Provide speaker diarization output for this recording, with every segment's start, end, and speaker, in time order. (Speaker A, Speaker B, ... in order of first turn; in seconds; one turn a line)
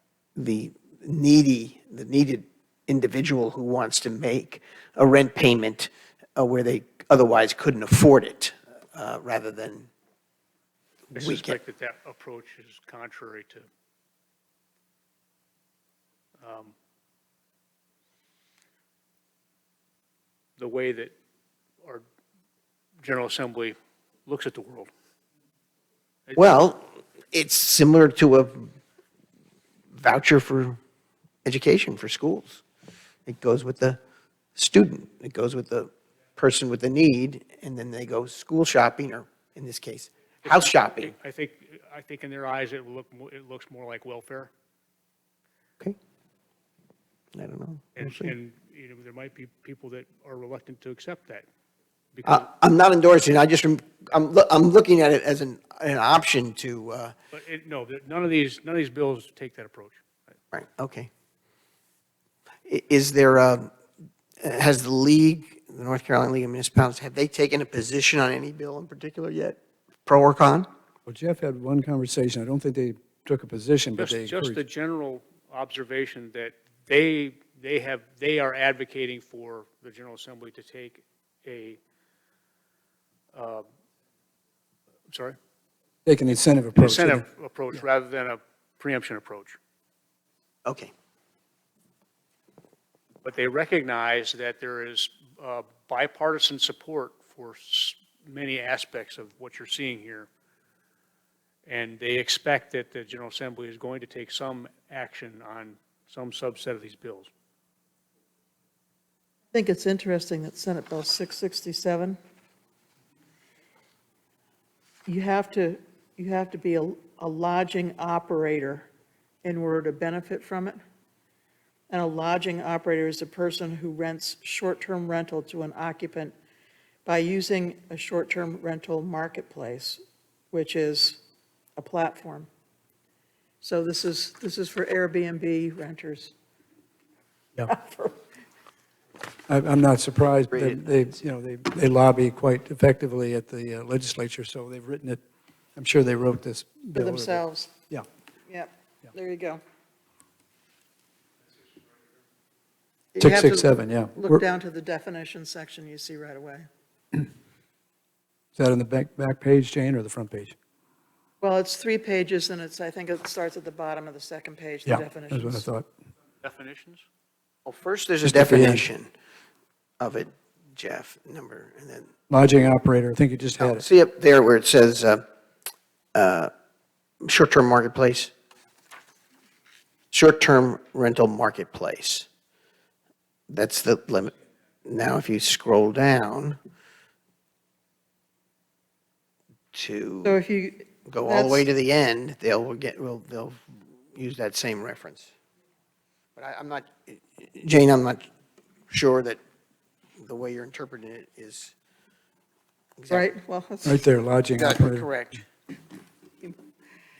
Speaker A: 0.3-9.9
Speaker B: 11.1-13.7
Speaker A: 11.1-11.6
Speaker B: 16.4-16.7
Speaker B: 20.6-21.1
Speaker B: 23.0-24.9
Speaker B: 26.3-26.7
Speaker A: 26.4-28.7
Speaker A: 29.9-30.8
Speaker A: 31.4-32.6
Speaker A: 33.3-34.0
Speaker A: 34.5-41.1
Speaker B: 40.4-44.5
Speaker A: 47.3-48.3
Speaker B: 48.0-51.4
Speaker B: 52.1-52.5
Speaker A: 52.2-57.1
Speaker B: 57.3-60.0
Speaker A: 60.5-61.1
Speaker A: 62.7-63.7
Speaker A: 64.4-70.7
Speaker C: 71.0-74.6
Speaker B: 74.0-81.8
Speaker B: 83.3-83.6
Speaker B: 85.1-85.4
Speaker C: 86.0-87.2
Speaker B: 86.8-89.6
Speaker A: 90.7-90.9
Speaker B: 93.2-100.3
Speaker B: 101.7-107.3
Speaker D: 109.5-112.2
Speaker D: 115.0-118.9
Speaker D: 119.4-120.8
Speaker D: 121.9-126.3
Speaker D: 127.0-130.0
Speaker D: 130.5-131.2
Speaker D: 131.8-132.5
Speaker D: 133.6-136.3
Speaker D: 137.7-138.2
Speaker C: 139.5-145.2
Speaker A: 140.5-140.8
Speaker C: 145.8-148.0
Speaker D: 146.9-147.7
Speaker D: 148.5-149.6
Speaker D: 153.1-156.7
Speaker C: 153.2-154.4
Speaker C: 158.6-160.5
Speaker D: 161.4-165.6
Speaker C: 164.8-165.8
Speaker B: 166.4-167.0
Speaker A: 167.7-169.1
Speaker C: 168.2-168.8
Speaker A: 170.0-172.1
Speaker C: 172.3-173.8
Speaker A: 173.6-175.2
Speaker A: 176.1-176.5
Speaker A: 177.2-178.3
Speaker A: 180.1-182.3
Speaker A: 183.5-186.6
Speaker A: 189.7-190.3
Speaker D: 190.2-191.6
Speaker A: 191.1-193.6
Speaker A: 194.1-195.3
Speaker A: 196.3-198.3
Speaker A: 198.9-199.4
Speaker A: 200.2-201.7
Speaker A: 203.0-203.3
Speaker D: 203.1-204.0
Speaker C: 203.8-205.1
Speaker A: 204.5-205.4